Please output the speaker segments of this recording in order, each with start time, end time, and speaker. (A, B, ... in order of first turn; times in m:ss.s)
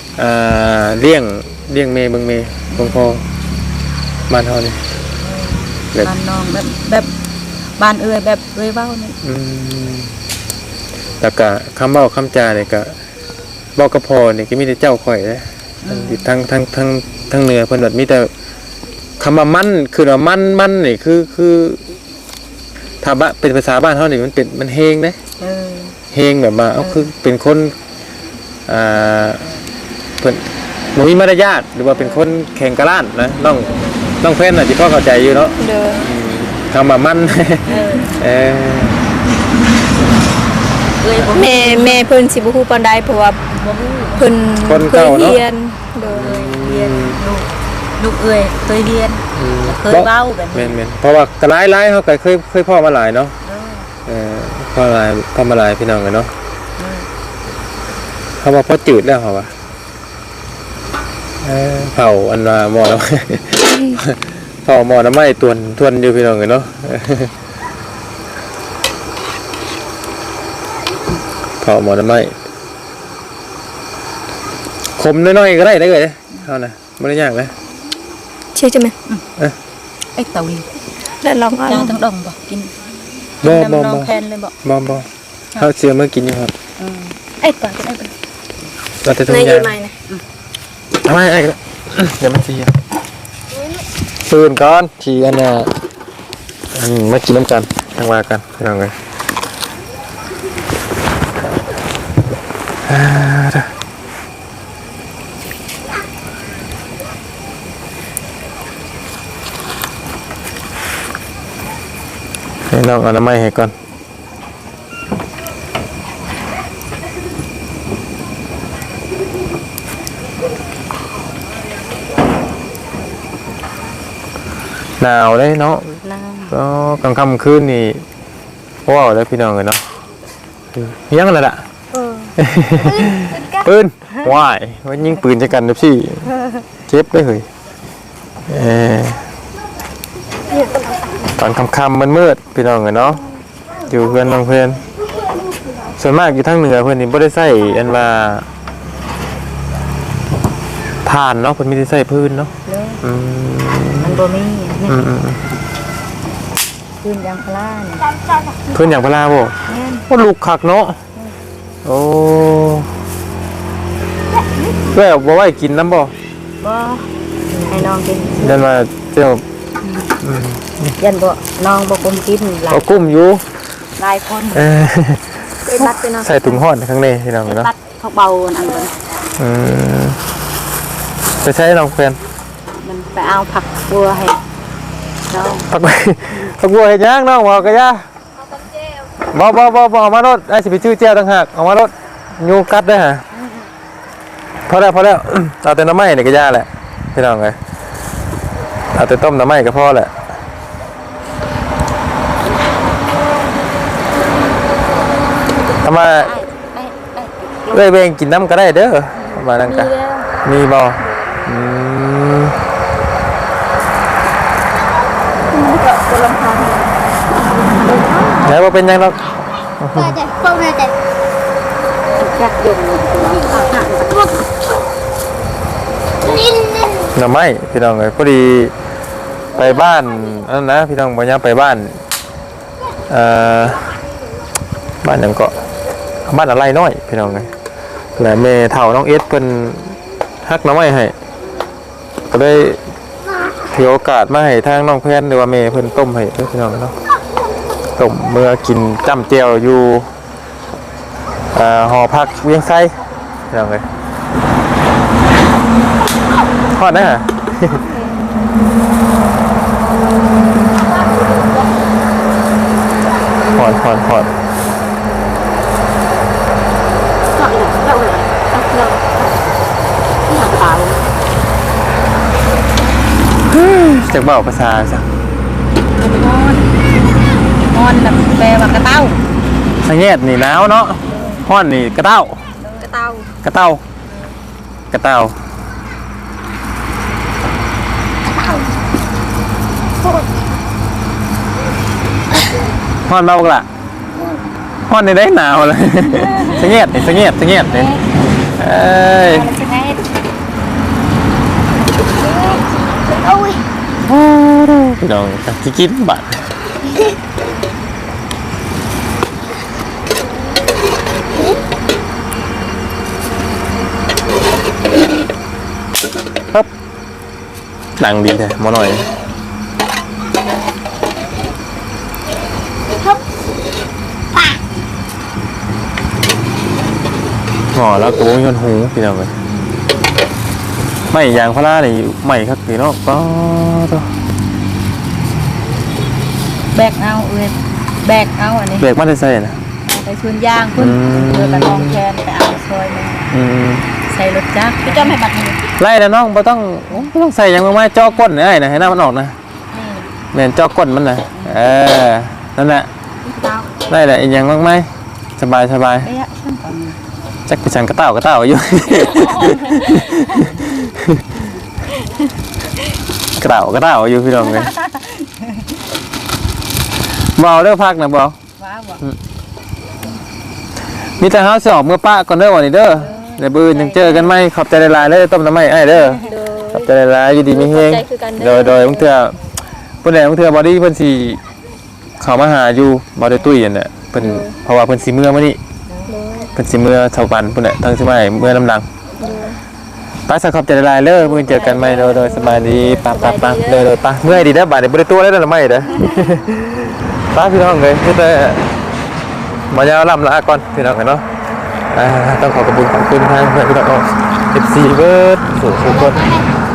0:00.2-0:03.2 A
0:02.7-0:03.2 B
0:04.3-0:04.8 A
0:05.2-0:07.1 B
0:07.8-0:09.2 B
0:09.2-0:10.1 A
0:11.2-0:13.0 A
0:13.8-0:18.3 A
0:15.8-0:16.3 B
0:19.2-0:21.8 A
0:23.0-0:25.2 A
0:25.4-0:26.0 B
0:26.1-0:27.8 A
0:26.8-0:27.1 B
0:28.7-0:29.5 A
0:30.2-0:33.7 A
0:31.9-0:32.3 B
0:33.4-0:34.2 B
0:34.2-0:39.0 A
0:35.6-0:36.0 C
0:37.6-0:38.2 B
0:41.0-0:42.1 B
0:41.3-0:43.4 C
0:43.5-0:44.3 B
0:44.2-0:46.3 C
0:44.6-0:45.4 A
0:46.0-0:50.8 B
0:46.0-0:47.2 A
0:49.4-0:53.4 A
0:53.4-0:53.9 B
0:54.0-0:56.3 A
0:56.8-0:57.1 B
0:58.4-0:59.5 A
1:01.4-1:07.3 A
1:11.6-1:12.4 A
1:15.0-1:17.6 A
1:18.6-1:18.9 C
1:20.1-1:20.7 B
1:21.2-1:22.0 C
1:21.6-1:22.7 B
1:23.4-1:24.6 B
1:23.4-1:26.5 A
1:26.8-1:28.1 B
1:29.0-1:29.8 A
1:29.3-1:29.9 C
1:31.0-1:32.7 A
1:34.2-1:35.8 A
1:36.7-1:39.0 A
1:42.9-1:43.7 A
1:52.7-1:53.7 A
2:05.0-2:06.0 A
2:06.0-2:06.6 B
2:06.5-2:08.0 A
2:08.9-2:09.9 A
2:10.7-2:11.6 A
2:11.9-2:13.6 B
2:12.4-2:16.3 A
2:16.9-2:17.5 A
2:18.5-2:19.3 A
2:21.3-2:23.2 A
2:23.9-2:24.8 A
2:25.9-2:28.5 A
2:31.0-2:34.2 A
2:32.6-2:33.0 B
2:34.0-2:35.0 B
2:34.9-2:35.4 A
2:37.0-2:38.1 B
2:38.7-2:39.6 A
2:39.7-2:40.1 B
2:40.1-2:41.0 A
2:41.8-2:42.9 A
2:44.9-2:46.1 A
2:46.6-2:48.6 B
2:48.4-2:49.4 A
2:49.8-2:50.1 B
2:50.2-2:50.9 A
2:51.0-2:53.2 B
2:52.7-2:53.4 A
2:54.0-2:54.7 B
2:54.5-2:57.7 A
2:55.6-2:56.5 C
2:57.5-2:59.0 B
2:59.4-3:00.2 A
3:01.4-3:02.2 A
3:02.8-3:04.4 B
3:05.3-3:05.7 B
3:05.7-3:08.1 A
3:09.3-3:13.2 A
3:14.6-3:17.6 A
3:18.9-3:20.2 A
3:25.8-3:26.3 A
3:26.0-3:27.9 B
3:27.7-3:29.9 A
3:29.6-3:30.3 C
3:30.4-3:32.6 A
3:31.1-3:31.4 C
3:35.5-3:36.9 C
3:37.7-3:38.4 C
3:38.4-3:40.2 A
3:42.2-3:44.4 B
3:47.0-3:48.7 A
3:49.6-3:52.0 A
3:53.1-3:53.9 A
3:55.0-3:55.5 A
3:56.3-3:57.5 A
3:58.2-4:01.1 A
4:02.3-4:02.8 A
4:03.7-4:07.0 A
4:08.0-4:10.1 A
4:11.5-4:13.0 A
4:13.5-4:13.8 A
4:16.7-4:17.8 A
4:23.5-4:24.3 A
4:27.4-4:28.3 B
4:28.5-4:29.0 C
4:30.3-4:31.1 B
4:33.4-4:35.1 A
4:36.0-4:36.7 B
4:37.7-4:39.2 B
4:39.8-4:42.4 A
4:42.6-4:42.9 B
4:42.8-4:43.3 C
4:43.4-4:43.8 A
4:44.9-4:45.4 A
4:53.0-4:53.6 A
4:54.9-4:57.9 A
4:56.3-4:56.6 B
4:57.7-4:58.0 B
4:58.6-4:59.5 A
4:59.3-5:00.0 B
5:03.2-5:03.6 B
5:04.0-5:06.5 A
5:18.0-5:19.1 A
5:27.7-5:29.3 A
5:31.1-5:34.1 A
5:36.7-5:38.9 B
5:38.8-5:39.6 A
5:39.8-5:43.3 B
5:40.8-5:42.0 A
5:43.3-5:43.9 A
5:44.1-5:45.6 B
5:44.9-5:45.2 C
5:45.8-5:49.4 A
5:49.7-5:50.1 B
5:50.3-5:52.9 A
5:51.3-5:51.6 B
5:53.3-5:53.7 B
5:53.9-5:56.1 A
5:56.0-5:57.0 B
5:57.5-6:01.2 A
5:59.2-6:00.7 B
6:03.4-6:04.7 A
6:04.4-6:05.7 B
6:07.2-6:08.4 A
6:08.6-6:09.0 B
6:11.2-6:19.4 A
6:12.9-6:14.3 B
6:15.9-6:16.9 C
6:17.5-6:19.1 C
6:20.0-6:21.4 A
6:22.2-6:25.6 A
6:24.2-6:24.5 C
6:25.9-6:26.2 B
6:26.1-6:26.5 C
6:26.5-6:28.9 A
6:29.2-6:29.6 C
6:30.3-6:38.7 A
6:31.3-6:33.9 C
6:31.6-6:32.1 B
6:39.7-6:41.2 A
6:41.9-6:46.4 A